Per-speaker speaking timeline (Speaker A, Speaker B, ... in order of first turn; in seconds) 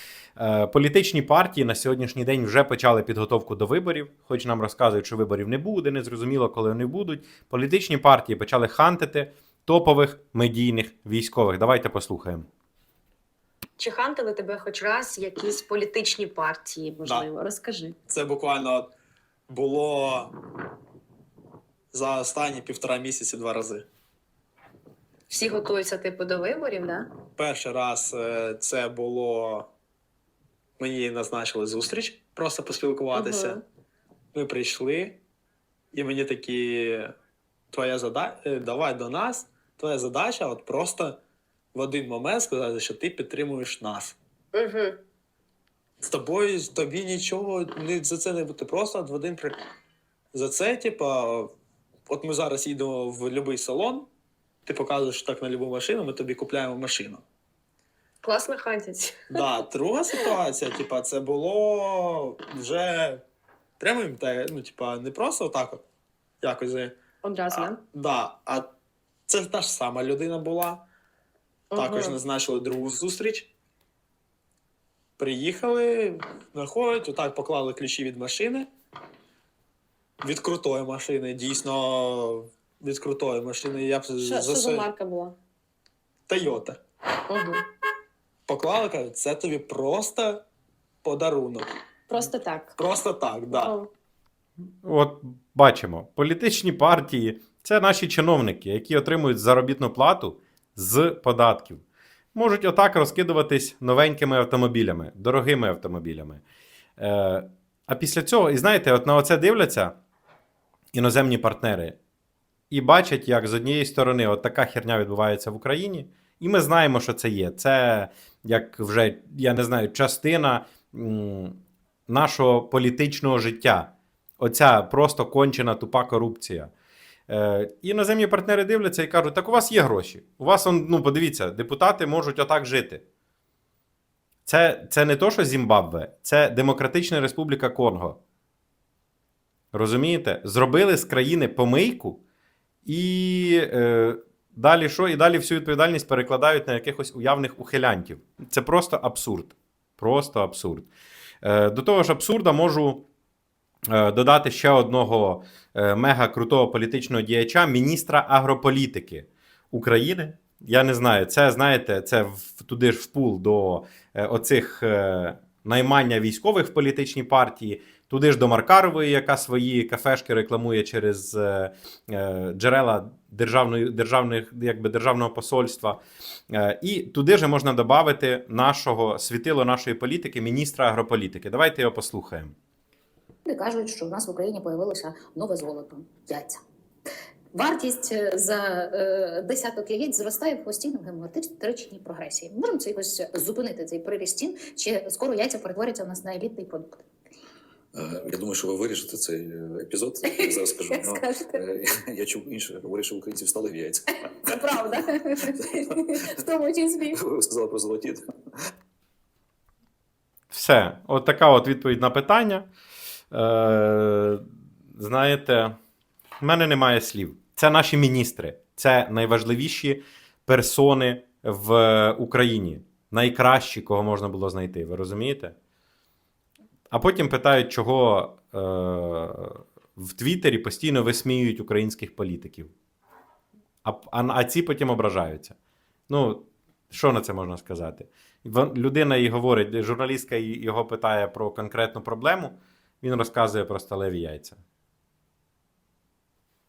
Speaker A: 0.4-12.5, 94.8-101.8, 102.3-106.4, 107.0-109.9, 110.9-112.0, 112.7-126.7, 127.3-133.0, 134.4-138.2, 139.7-142.2, 142.8-150.9, 151.4-153.0, 153.9-176.0, 176.5-182.5, 210.5-212.7, 213.3-214.4, 214.9-215.8, 216.4-225.5, 226.9-232.7, 233.8-235.5, 236.1-244.6
Speaker B: 13.8-17.9, 25.3-27.1, 33.1-33.6, 44.5-45.0, 58.2-59.5, 67.2-67.8, 71.7-72.2, 84.2-85.3, 87.3-87.6, 92.1-92.7, 93.5-93.9
Speaker C: 18.1-18.9, 19.5-20.3, 21.9-23.9, 27.4-29.7, 30.8-33.6, 34.3-35.2, 35.9-37.1, 37.7-41.2, 41.7-44.1, 46.0-49.5, 50.3-51.5, 52.1-54.1, 54.6-57.2, 59.3-63.2, 63.8-65.8, 66.4-67.0, 67.5-68.7, 69.3-70.8, 71.7-73.5, 75.2-78.7, 80.2-84.9, 86.3-86.8, 88.5-90.4, 91.0-91.7, 92.8-93.8
Speaker D: 183.4-186.6, 187.5-197.0, 200.2-201.6, 204.5-205.4, 205.9-207.1
Speaker E: 197.9-204.6, 207.1-208.3